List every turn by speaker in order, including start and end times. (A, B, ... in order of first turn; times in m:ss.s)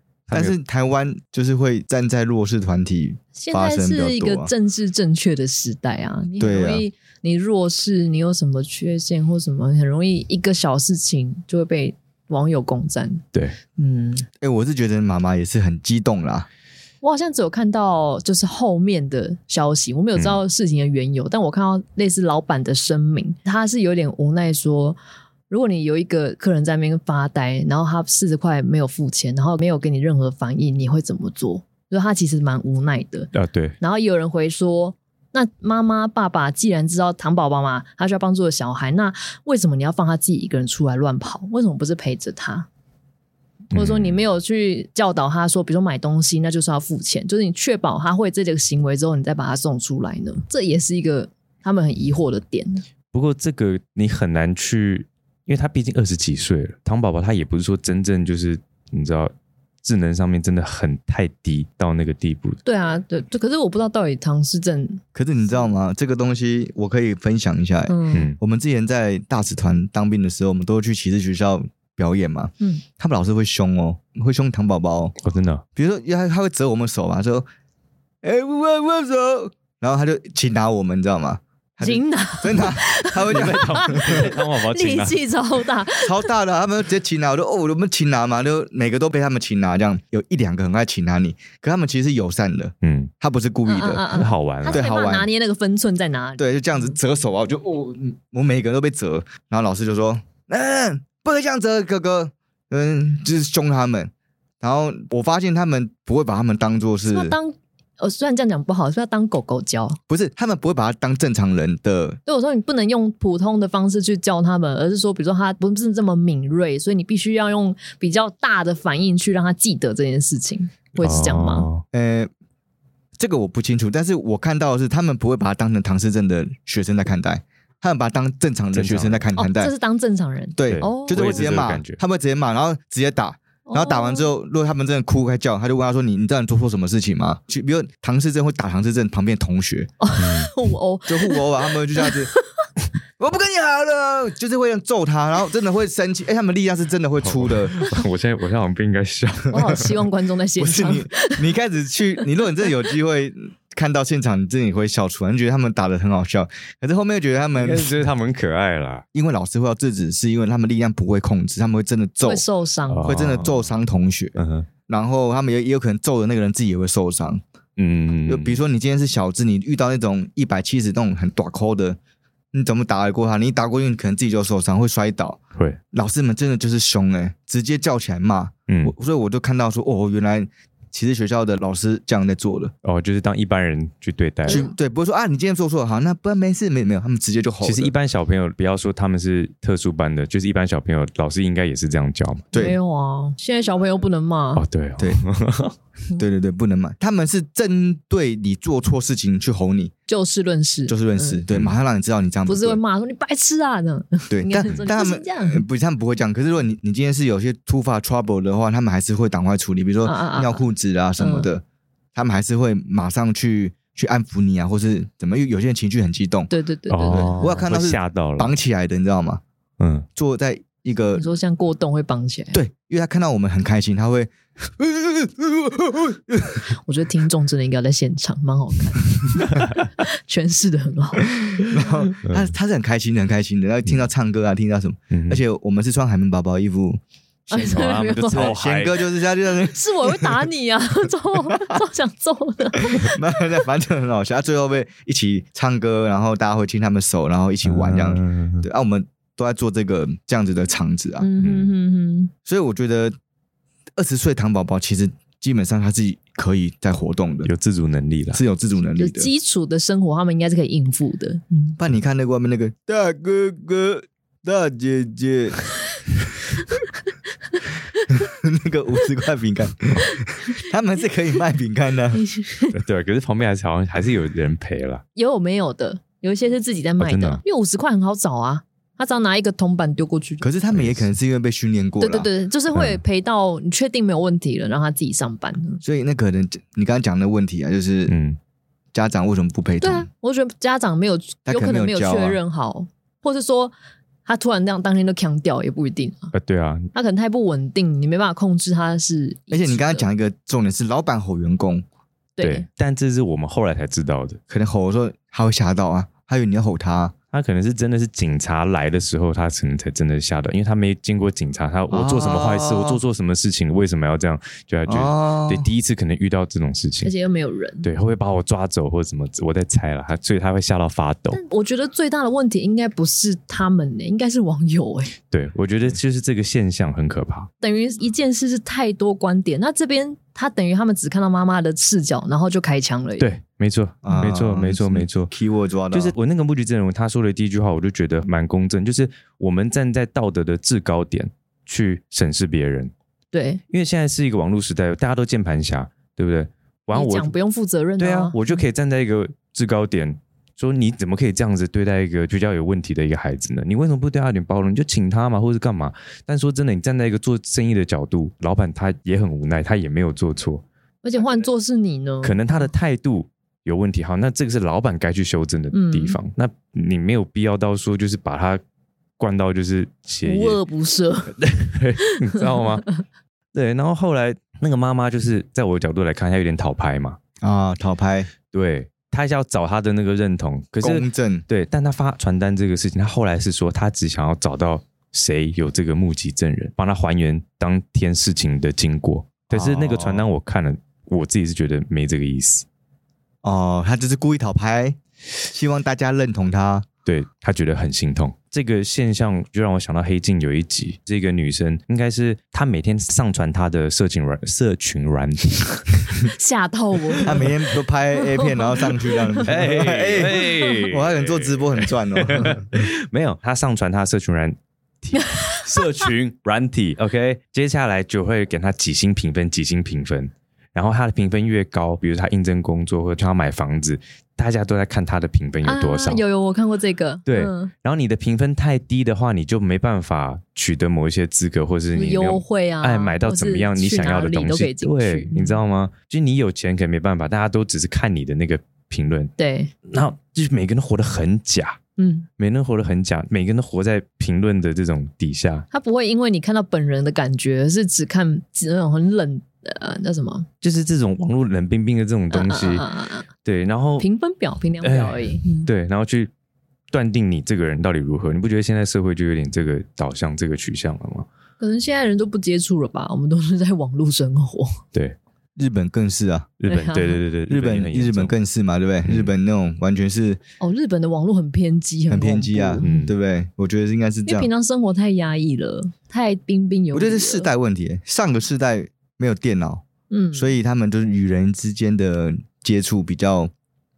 0:00.3-0:00.5 A
0:00.3-0:04.5 B
0:03.4-0:13.2 C
0:06.4-0:06.8 B
0:13.8-0:14.3 C
0:14.4-0:16.5 B
0:17.0-0:25.0 C
0:25.5-0:33.3 C
0:33.3-0:33.8 A
0:33.8-0:42.7 C
0:43.7-0:44.2 A
0:43.7-0:52.8 C
0:53.1-1:02.6 A
1:02.6-1:05.0 C
1:05.2-1:15.2 B
1:07.9-1:08.3 C
1:08.1-1:08.4 A
1:15.2-1:15.6 A
1:15.8-1:17.5 B
1:18.2-1:24.3 B
1:21.8-1:26.3 C
1:23.3-1:25.2 A
1:26.0-1:34.0 B
1:32.8-1:33.1 A
1:33.7-1:36.9 C
1:34.1-1:34.8 A
1:34.7-1:35.3 B
1:36.4-1:47.4 B
1:47.0-1:50.0 C
1:50.1-1:52.2 B
1:52.3-2:01.7 C
2:01.0-2:01.8 A
2:01.9-2:02.3 B
2:03.2-2:09.7 B
2:08.7-2:09.3 A
2:09.4-2:11.5 C
2:10.6-2:19.9 B
2:10.6-2:12.0 A
2:13.7-2:14.3 C
2:20.0-2:22.4 C
2:20.2-2:20.5 A
2:21.1-2:22.3 B
2:23.2-2:27.8 B
2:27.2-2:30.1 A
2:29.5-2:31.4 C
2:30.6-2:38.0 B
2:37.6-2:39.0 A
2:39.1-2:42.4 B
2:42.2-2:43.1 C
2:42.9-2:43.7 A
2:43.0-2:44.4 B
2:44.4-2:44.7 A
2:44.9-2:47.4 B
2:47.8-2:48.6 A
2:48.3-2:52.0 B
2:52.5-2:55.4 B
2:55.9-3:02.7 B
2:58.7-2:58.9 A
3:02.8-3:04.6 A
3:04.5-3:04.7 C
3:04.5-3:07.9 B
3:07.6-3:12.6 A
3:12.5-3:12.8 B
3:12.6-3:14.6 C
3:14.6-3:15.8 A
3:16.2-3:19.9 B
3:20.1-3:21.4 C
3:20.9-3:22.8 B
3:22.5-3:25.6 C
3:24.3-3:31.6 B
3:30.0-3:30.6 C
3:31.2-3:31.5 C
3:32.2-3:36.5 B
3:36.5-3:37.6 C
3:36.9-3:38.5 A
3:37.1-3:39.4 B
3:39.8-3:40.1 A
3:40.2-3:41.2 B
3:41.2-3:42.6 C
3:42.5-3:46.7 B
3:46.8-3:51.8 C
3:49.4-3:49.8 A
3:51.7-3:57.0 B
3:52.3-3:52.5 A
3:55.1-3:55.4 A
3:57.5-3:58.6 C
3:57.5-3:59.0 A
3:58.3-4:00.4 B
3:59.7-4:03.4 C
4:02.8-4:11.3 B
4:07.6-4:08.7 A
4:11.2-4:12.3 C
4:11.4-4:11.7 A
4:12.5-4:13.2 B
4:14.0-4:17.5 B
4:17.4-4:18.4 A
4:18.3-4:19.3 B
4:19.0-4:21.8 C
4:21.8-4:25.6 B
4:28.2-4:32.2 B
4:32.1-4:32.8 C
4:32.7-4:35.0 A
4:35.2-4:40.5 C
4:37.0-4:37.4 A
4:40.4-4:42.3 B
4:40.7-4:41.1 A
4:42.0-4:45.8 C
4:42.7-4:43.0 A
4:45.8-4:48.2 B
4:48.1-4:48.4 A
4:48.9-4:50.1 B
4:49.8-4:53.7 C
4:51.5-4:52.4 B
4:54.2-4:56.3 C
4:56.3-4:56.9 A
4:56.9-5:00.1 C
4:59.5-5:01.9 B
5:02.4-5:02.7 C
5:02.4-5:04.4 A
5:04.5-5:07.1 B
5:07.3-5:17.1 A
5:11.9-5:13.0 B
5:14.9-5:15.7 B
5:17.0-5:17.9 C
5:17.8-5:21.4 A
5:21.3-5:25.1 C
5:25.3-5:27.5 A
5:27.6-5:33.3 C
5:33.2-5:35.3 A
5:34.0-5:36.2 B
5:35.9-5:42.9 A
5:43.3-5:43.6 C
5:43.7-5:47.3 A
5:46.9-5:48.6 C
5:48.0-6:00.6 A
6:01.0-6:02.7 C
6:02.2-6:08.6 A
6:05.7-6:06.2 C
6:09.2-6:10.6 A
6:10.2-6:11.4 C
6:11.4-6:12.9 A
6:12.0-6:12.9 C
6:13.5-6:17.2 A
6:17.4-6:18.3 B
6:18.5-6:32.7 A
6:20.8-6:21.4 B
6:29.5-6:30.3 B
6:33.4-6:36.9 B
6:37.1-6:46.3 A
6:46.3-6:47.4 C
6:47.2-6:52.9 B
6:48.1-6:49.5 C
6:49.4-7:06.2 A
6:50.3-6:50.8 C
6:55.1-6:56.1 C
7:05.6-7:07.7 C
7:07.3-7:19.3 A
7:12.0-7:15.6 C
7:19.4-7:19.7 C
7:19.9-7:21.8 A
7:22.0-7:22.3 C
7:22.4-7:25.7 A
7:25.7-7:30.5 C
7:30.6-7:32.9 A
7:32.3-7:33.3 C
7:33.4-7:34.1 A
7:34.0-7:35.7 C
7:34.8-7:36.3 A
7:36.9-7:41.3 A
7:41.6-7:44.8 C
7:45.6-7:46.5 B
7:46.6-7:48.3 A
7:46.7-7:47.2 C
7:47.5-7:50.4 B
7:49.0-7:49.3 A
7:50.6-7:53.1 C
7:52.1-7:54.5 B
7:52.8-7:53.1 A
7:54.3-7:57.5 C
7:56.9-8:03.5 B
8:00.1-8:00.6 C